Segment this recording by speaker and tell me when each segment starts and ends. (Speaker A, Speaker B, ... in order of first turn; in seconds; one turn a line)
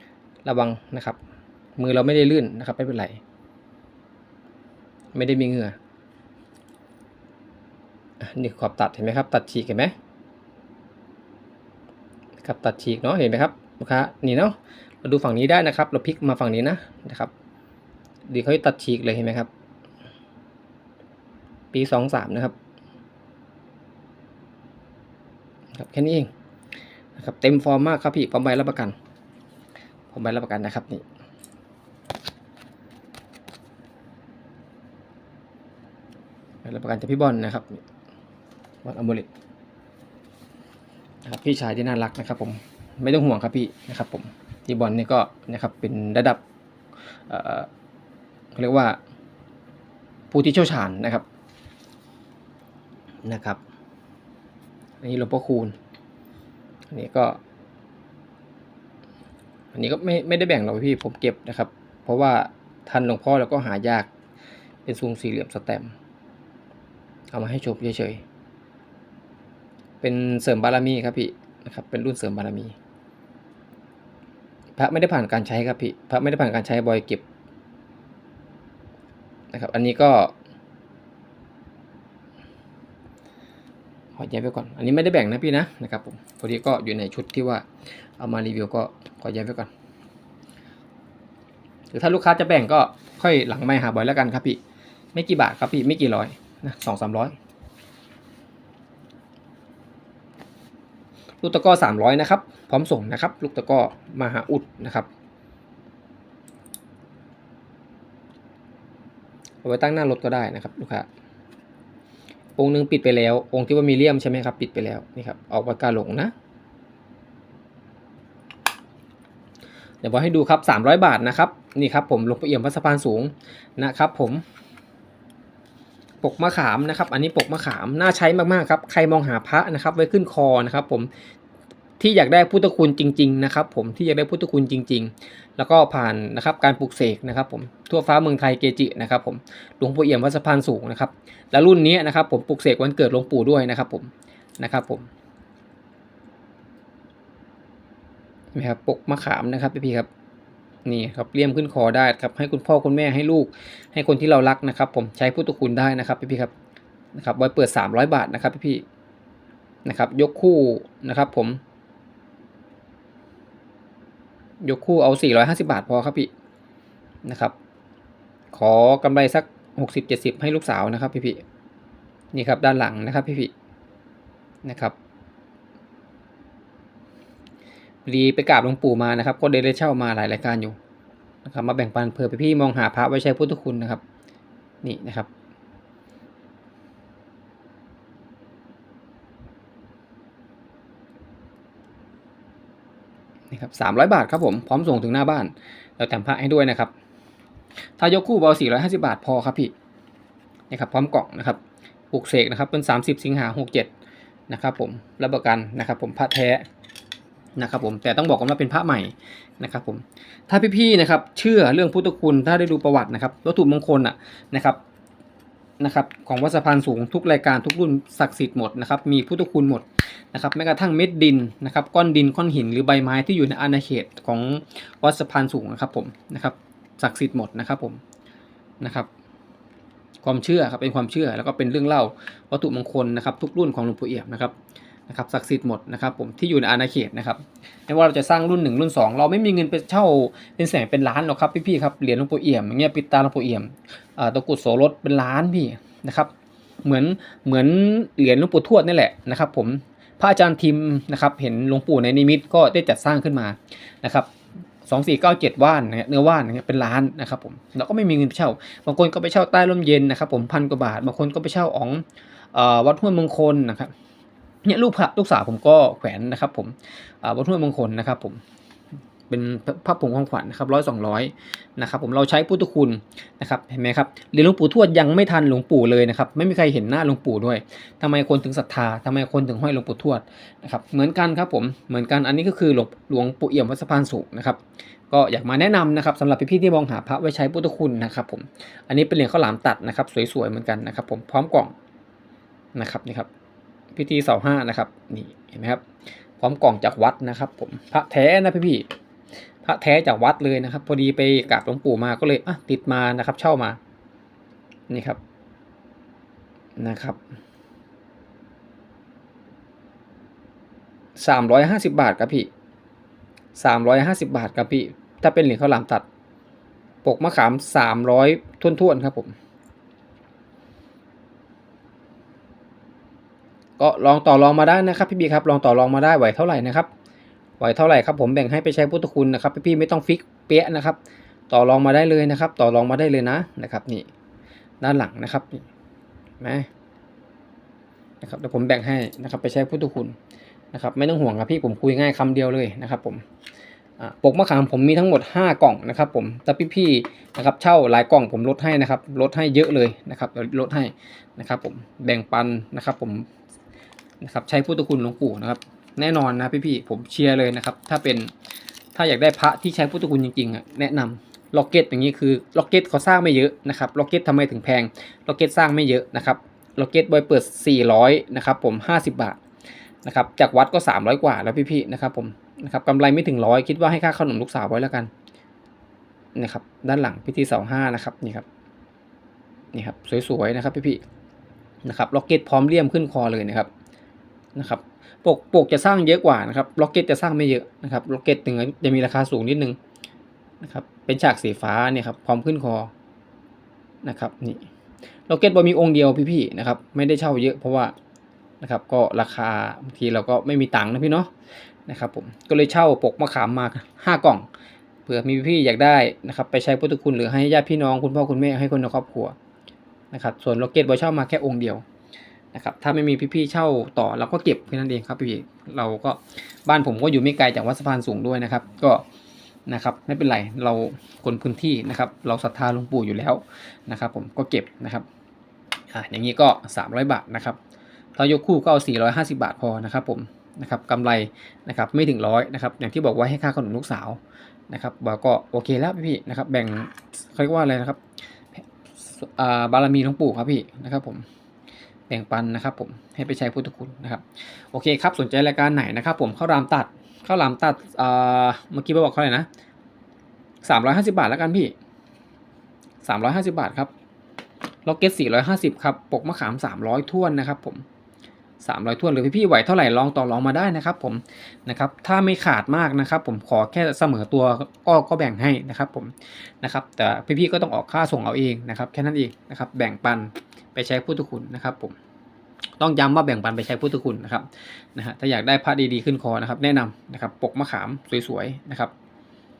Speaker A: 0.4-1.2
Speaker A: 1.8-3.2
Speaker A: 5.1-5.8
Speaker A: 8.2-9.9
Speaker A: 12.4-17.3
Speaker A: 18.3-19.5
Speaker A: 21.7-22.5
Speaker A: 25.7-26.3
Speaker A: 27.1-28.9
Speaker A: 30.1-31.0
Speaker A: 36.6-37.8
Speaker A: 38.8-39.3
Speaker A: 41.2-46.4
Speaker A: 47.3-47.7
Speaker A: 48.5-49.0
Speaker A: 50.3-51.2
Speaker A: 53.2-53.6
Speaker A: 55.0-55.7
Speaker A: 56.9-57.4
Speaker A: 59.7-64.1
Speaker A: 64.8-65.9
Speaker A: 67.3-68.2
Speaker A: 70.0-72.7
Speaker A: 74.8-77.2
Speaker A: 79.5-80.3
Speaker A: 84.2-87.7
Speaker A: 88.2-89.7
Speaker A: 91.9-94.6
Speaker A: 95.1-97.3
Speaker A: 101.4-105.1
Speaker A: 109.6-111.1
Speaker A: 112.5-116.3
Speaker A: 120.0-124.4
Speaker A: 126.2-131.1
Speaker A: 132.0-145.1
Speaker A: 148.5-150.1
Speaker A: 150.8-156.5
Speaker A: 157.1-158.8
Speaker A: 159.8-161.6
Speaker A: 164.6-166.3
Speaker A: 167.2-167.5
Speaker A: 168.5-171.4
Speaker A: 172.3-173.5
Speaker A: 174.6-174.9
Speaker A: 178.0-180.8
Speaker A: 181.4-184.0
Speaker A: 184.8-185.3
Speaker A: 193.5-196.9
Speaker A: 198.0-199.7
Speaker A: 200.7-201.6
Speaker A: 202.1-203.9
Speaker A: 204.5-206.7
Speaker A: 207.6-214.8
Speaker A: 215.8-228.0
Speaker A: 228.8-229.1
Speaker A: 230.2-234.5
Speaker A: 235.1-246.3
Speaker A: 246.8-254.3
Speaker A: 254.8-263.9
Speaker A: 264.6-268.4
Speaker A: 269.3-291.7
Speaker A: 292.7-293.3
Speaker A: 293.9-295.9
Speaker A: 296.4-298.9
Speaker A: 299.6-303.8
Speaker A: 304.9-305.2
Speaker A: 306.8-307.2
Speaker A: 311.2-312.5
Speaker A: 313.5-316.0
Speaker A: 317.0-319.3
Speaker A: 323.8-326.9
Speaker A: 327.6-331.0
Speaker A: 331.5-334.1
Speaker A: 334.8-335.6
Speaker A: 336.4-336.7
Speaker A: 338.2-340.1
Speaker A: 340.7-343.2
Speaker A: 344.0-353.3
Speaker A: 354.2-358.3
Speaker A: 358.9-369.4
Speaker A: 370.0-375.1
Speaker A: 376.3-378.4
Speaker A: 379.7-381.0
Speaker A: 381.8-383.7
Speaker A: 384.5-389.8
Speaker A: 390.6-392.9
Speaker A: 394.0-394.7
Speaker A: 395.3-397.9
Speaker A: 398.6-401.3
Speaker A: 401.9-404.5
Speaker A: 405.1-409.3
Speaker A: 410.1-411.8
Speaker A: 412.5-419.0
Speaker A: 419.7-425.1
Speaker A: 425.9-427.6
Speaker A: 428.1-438.0
Speaker A: 438.5-441.2
Speaker A: 442.1-449.5
Speaker A: 450.6-451.7
Speaker A: 453.0-453.9
Speaker A: 454.8-457.8
Speaker A: 458.6-471.9
Speaker A: 472.8-478.9